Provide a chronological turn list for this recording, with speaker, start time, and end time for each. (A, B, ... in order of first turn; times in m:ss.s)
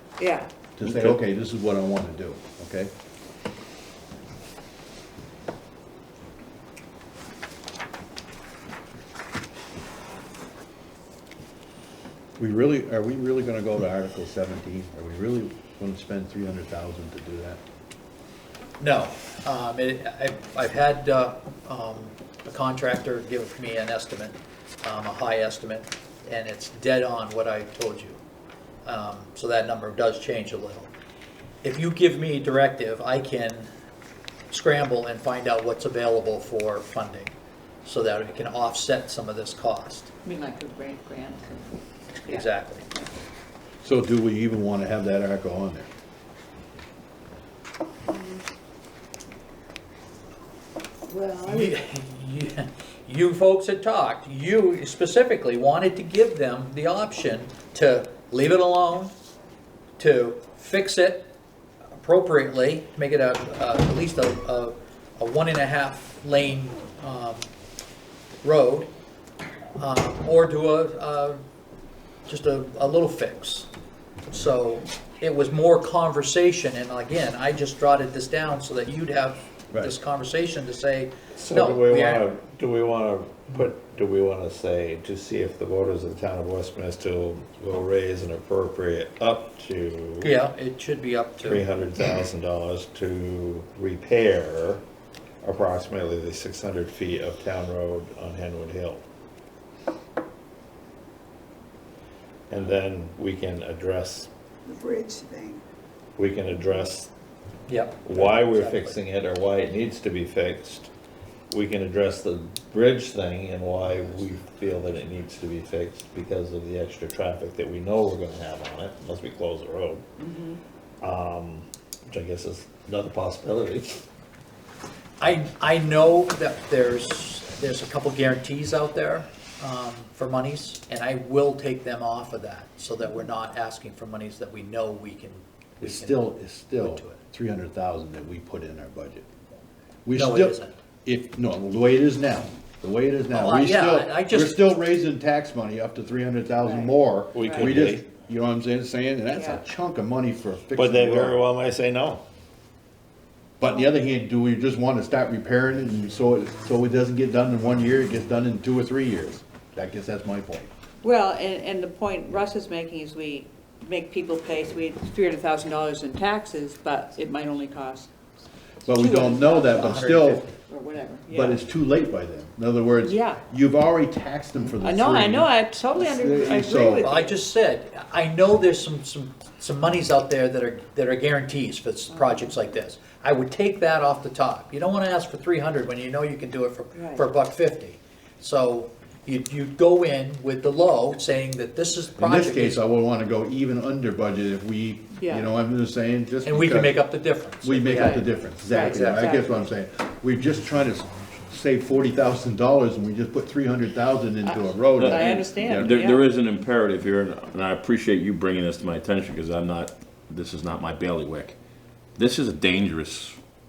0:00.2-0:00.5 A
0:00.8-0:02.9 B
0:00.8-0:01.2 C
0:12.4-0:17.6 B
0:18.8-0:28.2 D
0:28.8-0:30.9 D
0:31.6-0:33.7 D
0:34.5-0:40.1 D
0:40.2-0:43.1 A
0:42.3-0:42.8 D
0:43.8-0:45.9 B
0:48.1-0:48.4 A
0:51.1-0:51.8 A
0:51.4-0:59.1 D
1:00.0-1:01.3 D
1:02.0-1:07.4 D
1:08.4-1:08.9 D
1:09.8-1:11.4 D
1:12.3-1:13.7 D
1:14.3-1:22.2 D
1:21.3-1:30.3 E
1:30.2-1:31.6 D
1:31.4-1:34.8 E
1:35.4-1:39.0 E
1:42.5-1:44.3 E
1:46.2-1:47.1 E
1:47.7-1:49.0 D
1:48.0-1:50.9 E
1:51.5-2:00.0 E
2:00.2-2:00.6 A
2:01.0-2:04.0 E
2:05.2-2:17.2 D
2:15.8-2:19.2 B
2:20.0-2:31.4 B
2:20.1-2:20.8 D
2:23.3-2:24.6 D
2:26.6-2:26.9 A
2:27.3-2:28.0 E
2:29.4-2:29.6 A
2:30.7-2:32.2 E
2:33.6-2:40.7 B
2:41.0-2:48.1 A
2:48.8-2:50.4 B
2:48.9-2:49.9 A
2:49.0-2:50.5 D
2:50.5-2:51.6 A
2:51.3-2:57.1 B
2:53.0-2:53.4 A
2:54.8-2:57.4 A
2:56.9-3:12.8 D
3:02.1-3:02.6 A
3:06.9-3:07.3 A
3:12.1-3:26.0 B
3:15.2-3:15.5 A
3:16.4-3:19.4 D
3:17.9-3:19.4 A
3:24.4-3:26.2 A
3:25.0-3:31.6 C
3:32.2-3:33.4 C